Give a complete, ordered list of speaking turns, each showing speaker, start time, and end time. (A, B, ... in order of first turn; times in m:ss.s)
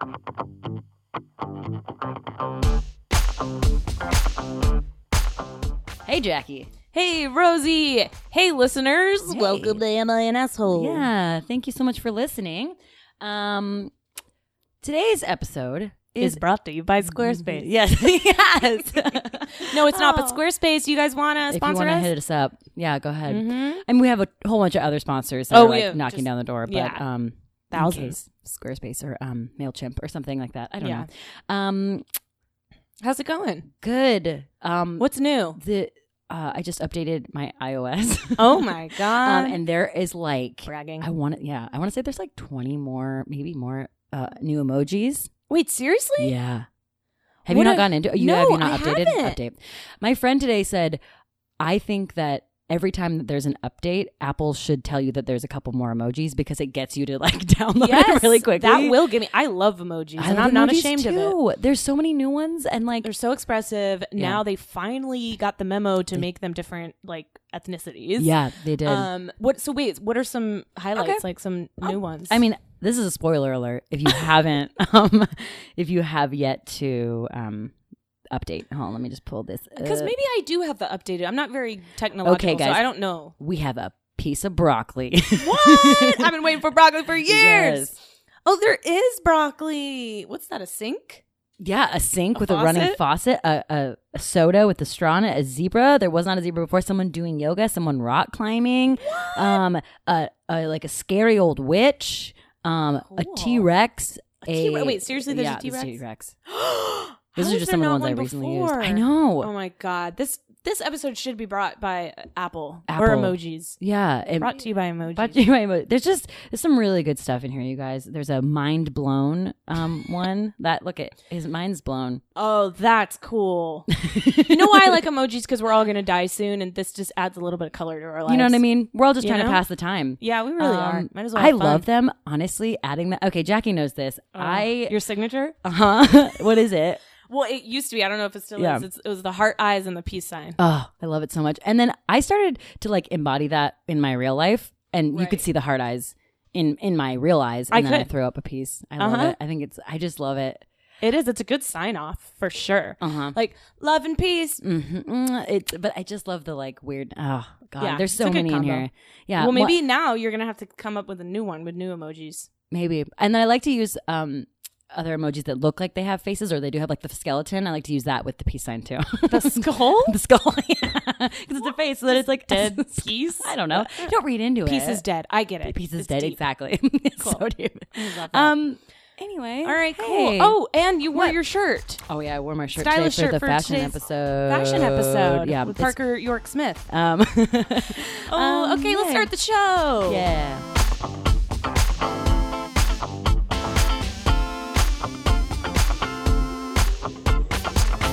0:06.0-0:06.7 A
0:06.9-0:11.1 B
0:09.3-0:09.8 A
0:10.6-0:13.9 A
0:14.8-0:16.4 A
0:16.2-0:17.7 B
0:17.1-0:20.4 A
0:19.6-0:22.1 B
0:21.5-0:32.0 A
0:23.3-0:23.8 B
0:25.5-0:27.0 B
0:27.7-0:28.2 B
0:30.8-0:31.1 B
0:33.0-0:33.7 B
0:33.8-0:45.3 A
0:35.0-0:35.6 B
0:38.4-0:39.6 B
0:40.7-0:41.0 B
0:45.5-0:46.3 B
0:46.2-0:46.7 A
0:47.4-0:51.0 A
0:47.5-0:49.4 B
0:51.6-0:59.0 A
0:57.8-1:01.4 B
1:00.2-1:03.1 A
1:03.0-1:12.4 B
1:04.2-1:04.4 A
1:08.2-1:09.1 A
1:10.9-1:11.2 A
1:11.8-1:17.7 A
1:18.3-1:20.1 A
1:19.8-1:23.3 B
1:22.2-1:26.2 A
1:25.4-1:31.2 B
1:27.3-1:28.0 A
1:31.6-1:46.3 A
1:32.3-1:33.0 B
1:39.0-1:39.6 B
1:43.1-1:43.7 B
1:44.4-1:53.8 B
1:47.4-1:49.5 A
1:52.9-2:02.2 A
1:54.4-1:55.4 B
2:02.4-2:08.6 B
2:04.0-2:04.9 A
2:08.2-2:15.0 A
2:09.2-2:09.6 B
2:10.2-2:11.8 B
2:14.3-2:15.6 B
2:15.6-2:17.0 A
2:17.2-2:20.6 B
2:18.6-2:18.8 A
2:20.6-2:30.6 A
2:25.1-2:25.4 B
2:27.7-2:28.1 B
2:29.0-2:29.4 B
2:31.0-2:34.6 B
2:33.0-2:33.4 A
2:34.6-2:39.8 A
2:37.8-2:42.5 B
2:42.7-2:55.0 A
2:49.3-2:50.1 B
2:52.1-2:58.6 B
2:55.6-3:00.6 A
2:59.6-3:02.1 B
3:01.1-3:01.4 A
3:02.0-3:06.0 A
3:02.7-3:06.9 B
3:06.9-3:09.3 A
3:08.3-3:10.2 B
3:10.0-3:10.6 A